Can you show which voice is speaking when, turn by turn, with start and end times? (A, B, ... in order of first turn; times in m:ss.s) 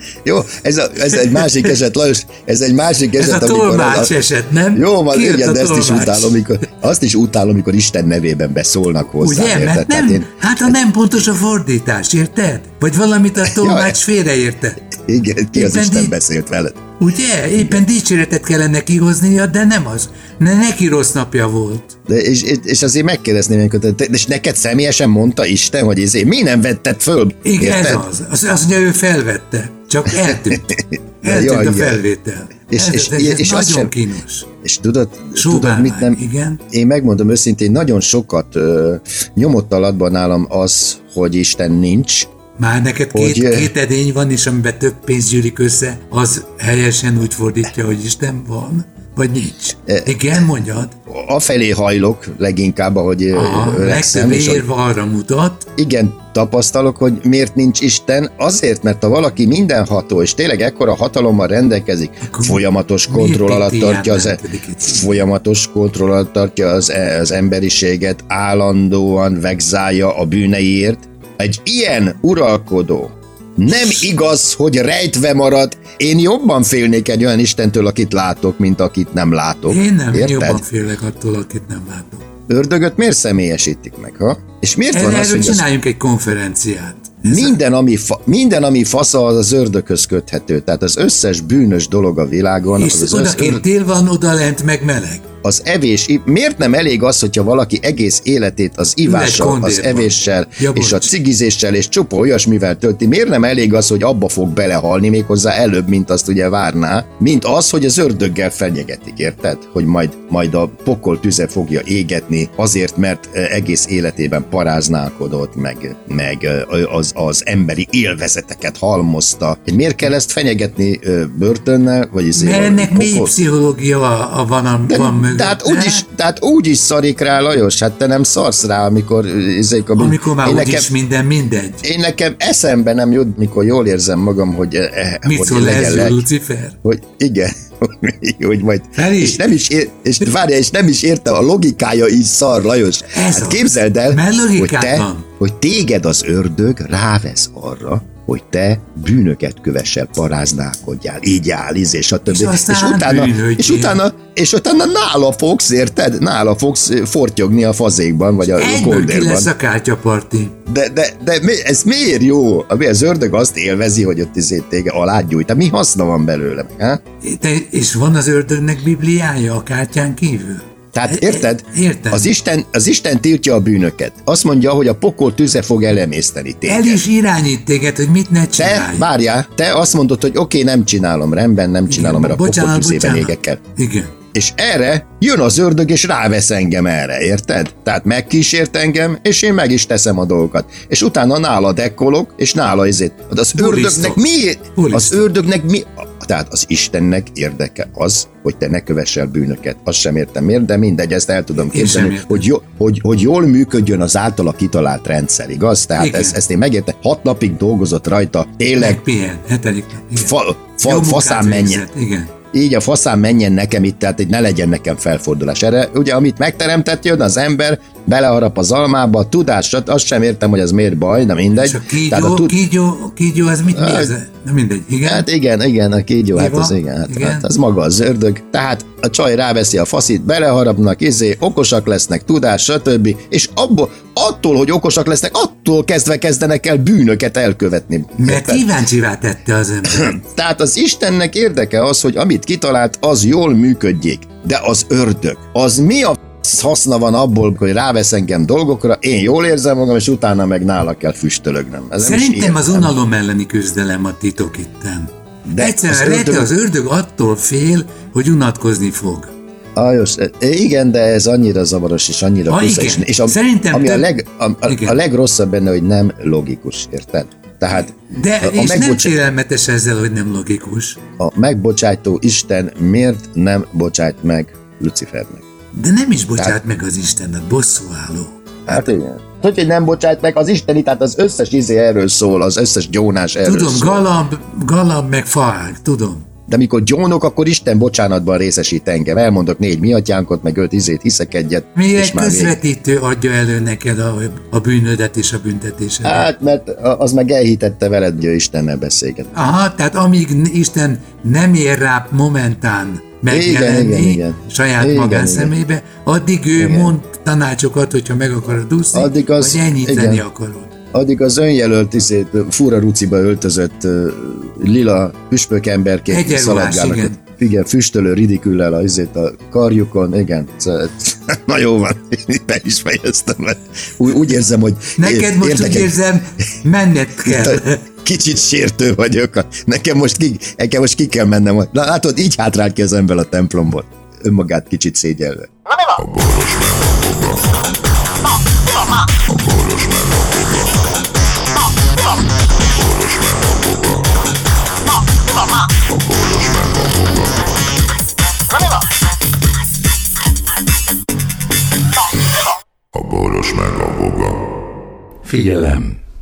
0:00.2-0:04.1 A
0:01.4-0:01.7 B
0:03.2-0:06.4 B
0:04.7-0:10.8 A
0:09.2-0:14.8 B
0:13.4-0:14.0 A
0:15.0-0:16.9 A
0:15.5-0:16.2 B
0:17.0-0:21.9 B
0:22.1-0:28.0 A
0:27.4-0:34.5 B
0:30.1-0:32.0 A
0:32.7-0:33.9 A
0:34.6-0:42.3 A
0:35.3-0:36.6 B
0:42.6-0:50.9 B
0:43.1-0:43.7 A
0:49.9-0:50.1 A
0:51.1-0:54.6 A
0:53.3-0:55.7 B
0:55.8-1:20.6 A
1:02.2-1:05.2 B
1:13.7-1:14.0 B
1:19.7-1:22.2 B
1:22.5-1:25.6 A
1:24.9-1:27.6 B
1:27.2-1:33.6 A
1:32.7-1:35.2 B
1:35.4-2:03.3 A
1:39.0-1:41.1 B
2:02.3-2:06.0 B
2:04.9-2:10.9 A
2:10.0-2:11.8 B
2:11.8-2:16.2 A
2:15.2-2:16.8 B
2:16.8-2:39.5 A
2:19.0-2:19.4 B
2:23.1-2:25.3 B
2:32.3-2:34.0 B
2:38.5-2:40.5 B
2:40.7-2:47.0 A
2:47.2-2:52.3 B
2:50.9-2:57.0 A
2:56.7-2:59.0 B
2:58.6-3:03.6 A
3:01.9-3:04.1 B
3:04.3-3:29.0 A
3:13.5-3:15.3 B
3:21.6-3:22.4 B
3:26.0-3:26.4 B
3:28.8-3:32.3 B
3:30.2-3:31.8 A
3:32.5-3:42.6 A
3:41.6-3:45.2 B
3:43.7-3:44.1 A
3:45.0-3:58.7 A
3:46.3-3:47.5 B
3:58.2-4:00.2 B
3:59.8-4:12.9 A
4:12.0-4:19.3 B
4:15.4-4:16.5 A
4:19.8-4:29.2 A
4:22.5-4:24.1 B
4:24.6-4:25.0 B
4:28.1-4:31.0 B
4:31.2-4:35.4 A
4:35.7-4:38.4 B
4:38.7-4:44.0 A
4:43.4-4:46.2 B
4:46.5-4:52.6 A
4:51.8-4:56.2 B
4:56.0-4:59.3 A
4:59.3-5:10.7 B
5:03.3-5:05.5 A
5:06.6-5:06.9 A
5:08.9-5:10.2 A
5:10.9-5:25.9 A
5:16.1-5:17.2 B
5:25.0-5:27.8 B
5:27.2-5:35.5 A
5:36.0-5:37.5 C
5:39.2-5:40.8 C
5:42.7-5:44.0 C
5:45.9-5:47.3 C
5:52.9-5:54.4 C
5:55.2-5:56.0 B